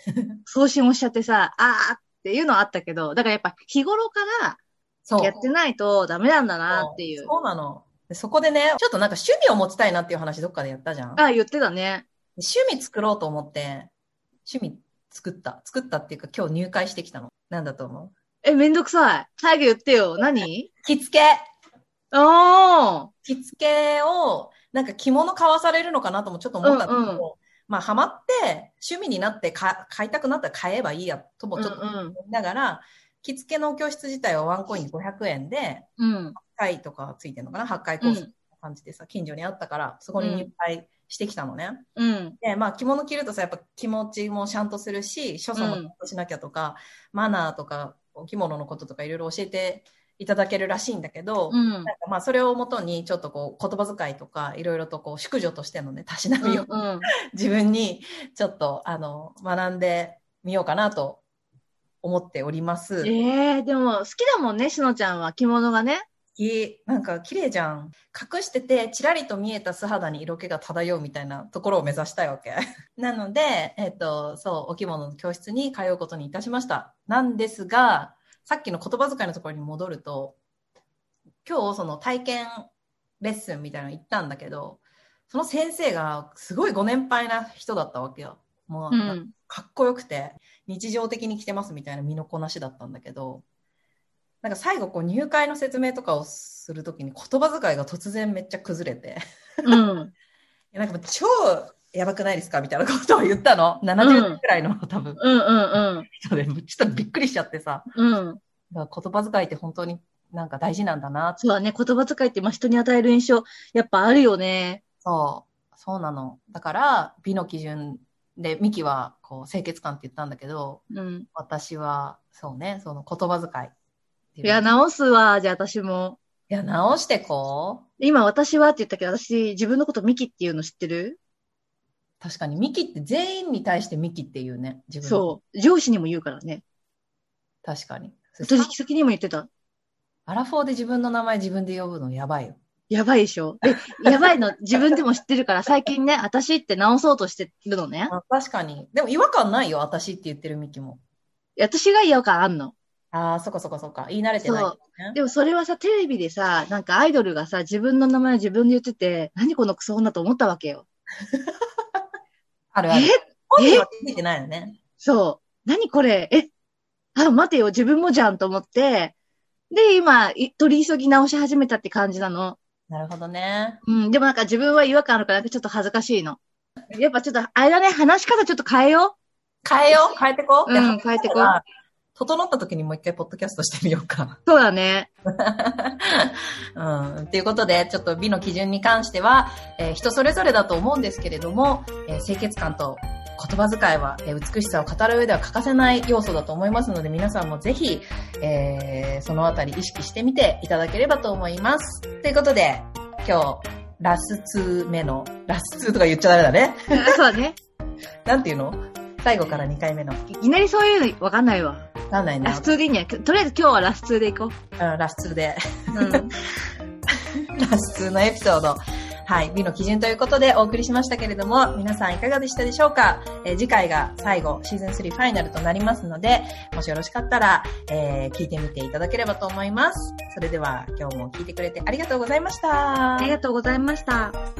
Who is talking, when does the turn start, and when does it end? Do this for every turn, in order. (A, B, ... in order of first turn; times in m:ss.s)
0:00.1-0:00.4 A
0:00.5-0:04.6 B
0:05.1-0:05.4 A
0:05.2-0:07.3 B
0:06.7-0:11.2 A
0:11.2-0:12.1 B
0:12.4-0:13.9 A
0:14.4-0:18.1 A
0:18.4-0:20.7 B
0:20.8-0:21.4 A
0:22.1-0:23.1 B
0:23.2-0:41.8 A
0:26.6-0:27.2 B
0:31.6-0:32.2 B
0:36.0-0:36.4 B
0:38.0-0:38.3 B
0:40.2-0:40.5 B
0:42.0-0:42.4 B
0:42.4-0:56.7 A
0:45.6-0:45.9 B
0:51.5-0:51.9 B
0:56.4-0:57.1 B
0:57.3-1:01.2 A
1:02.0-1:03.1 A
1:03.0-1:06.1 B
1:06.4-1:20.4 A
1:21.4-1:33.4 A
1:28.9-1:29.3 B
1:34.4-1:39.2 A
1:39.6-1:40.1 B
1:40.7-1:45.2 A
1:44.0-1:44.4 B
1:45.2-1:46.1 B
1:46.1-1:47.9 A
1:47.9-1:48.4 B
1:48.7-1:51.4 A
1:51.4-1:54.8 B
1:55.0-2:00.8 A
2:00.9-2:01.3 B
2:01.4-2:03.7 A
2:04.4-2:04.7 A
2:04.4-2:06.2 B
2:06.5-2:07.9 A
2:08.0-2:11.2 B
2:12.2-2:15.4 A
2:15.0-2:16.6 B
2:17.6-2:18.7 A
2:18.4-2:19.5 B
2:20.3-2:22.6 A
2:22.9-2:28.1 B
2:28.1-2:31.0 A
2:31.6-2:32.7 B
2:33.1-2:35.2 A
2:34.4-2:40.8 B
2:42.7-2:44.8 A
2:42.9-2:43.9 B
2:45.0-2:46.5 B
2:47.1-2:49.1 B
2:49.7-2:52.6 B
2:52.9-2:53.8 A
2:53.8-2:56.4 B
2:56.9-2:59.1 B
2:59.6-3:01.6 A
3:00.6-3:01.6 B
3:02.1-3:04.4 A
3:04.5-3:05.1 B
3:05.3-3:27.1 A
3:26.9-3:27.6 B
3:28.2-3:30.2 A
3:30.3-3:31.9 B
3:32.1-3:32.7 A
3:32.4-3:34.6 B
3:34.8-3:36.2 A
3:36.0-3:36.3 B
3:37.6-3:53.3 A
3:53.2-3:54.4 B